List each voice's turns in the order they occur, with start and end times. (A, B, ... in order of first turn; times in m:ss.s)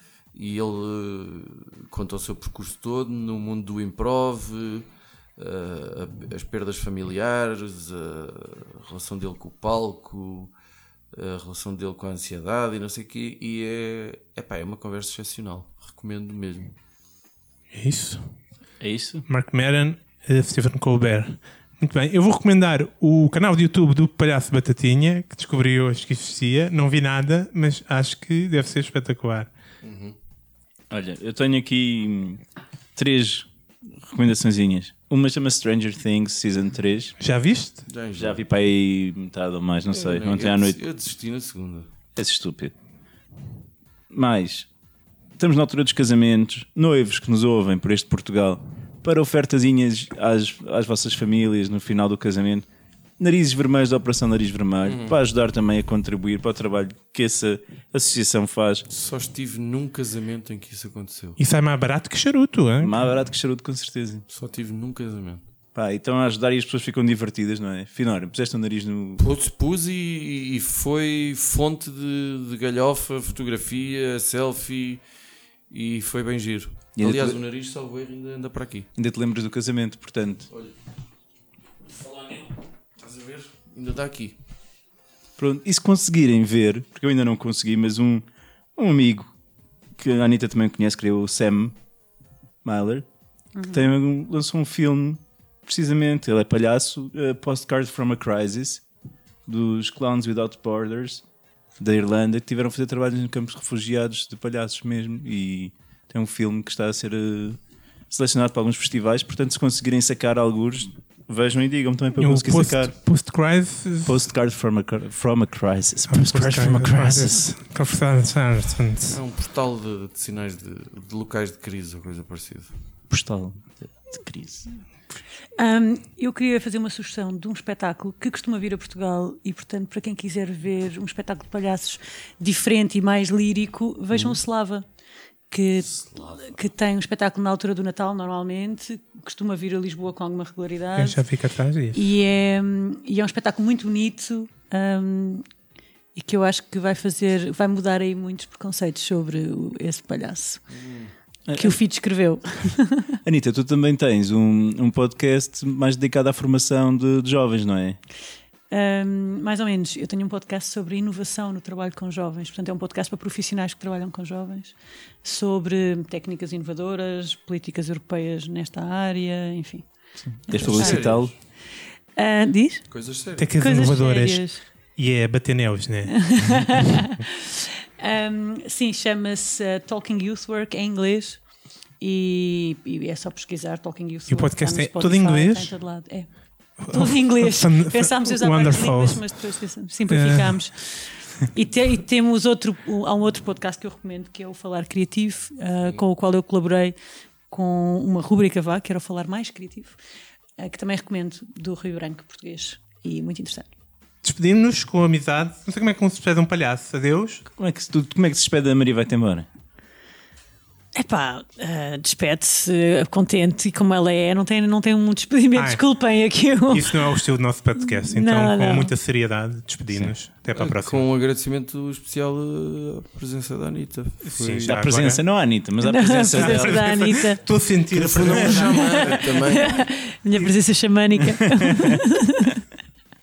0:00.3-0:10.5 A
0:11.1-0:16.7 A
0:17.7-0:18.3 B
0:18.8-0:19.2 C
0:19.3-0:29.5 B
0:29.8-0:30.2 A
0:30.9-0:32.4 C
0:33.0-0:33.5 C
0:34.0-0:37.1 C
0:37.2-0:37.8 B
0:37.8-0:38.4 A
0:38.2-0:40.8 C
0:39.9-0:41.9 A
0:42.2-0:42.7 C
0:44.1-0:44.7 C
0:45.4-0:52.6 C
0:53.2-0:58.8 C
0:54.8-0:55.2 A
0:58.9-1:01.4 A
1:01.4-1:03.0 B
1:02.8-1:04.2 C
1:04.3-1:05.4 A
1:05.7-1:09.3 C
1:09.2-1:15.0 A
1:15.7-1:18.9 A
1:17.0-1:17.4 C
1:19.0-1:20.5 C
1:21.9-1:24.4 A
1:25.4-1:28.2 C
1:28.8-1:29.3 C
1:30.0-1:31.7 C
1:32.6-1:33.0 C
1:33.6-1:33.8 D
1:33.7-1:38.8 C
1:39.5-1:41.2 C
1:41.8-1:47.6 C
1:48.1-1:52.9 C
1:52.2-1:54.2 B
1:54.0-1:57.5 C
1:56.1-1:59.2 B
1:59.1-2:02.7 A
2:03.1-2:04.7 C
2:05.6-2:14.8 D
2:15.5-2:21.2 D
2:15.9-2:16.6 A
2:21.0-2:22.0 B
2:21.9-2:25.4 D
2:26.1-2:30.6 D
2:30.7-2:31.1 A
2:31.5-2:31.8 C
2:31.6-2:33.2 D
2:33.2-2:38.0 C
2:38.7-2:49.9 D
2:50.2-2:51.3 C
2:50.4-2:51.2 D
2:50.5-2:51.3 A
2:52.2-2:52.9 D
2:52.9-2:53.6 A
2:53.4-2:54.4 B
2:53.6-2:54.6 D
2:55.0-2:56.4 B
2:56.1-3:01.4 D
3:02.0-3:17.0 D
3:04.3-3:05.7 B
3:06.9-3:09.2 B
3:10.1-3:10.6 B
3:17.5-3:20.0 D
3:20.6-3:23.7 D
3:24.2-3:27.4 B
3:27.6-3:29.4 C
3:30.9-3:37.2 D
3:35.5-3:35.8 B
3:36.7-3:41.0 B
3:37.8-3:38.9 D
3:40.5-3:44.8 A
3:44.2-3:45.2 B
3:44.6-3:47.0 C
3:45.8-3:47.4 D
3:46.4-3:49.2 B
3:47.9-3:49.8 A
3:48.6-3:52.6 D
3:51.5-3:51.9 C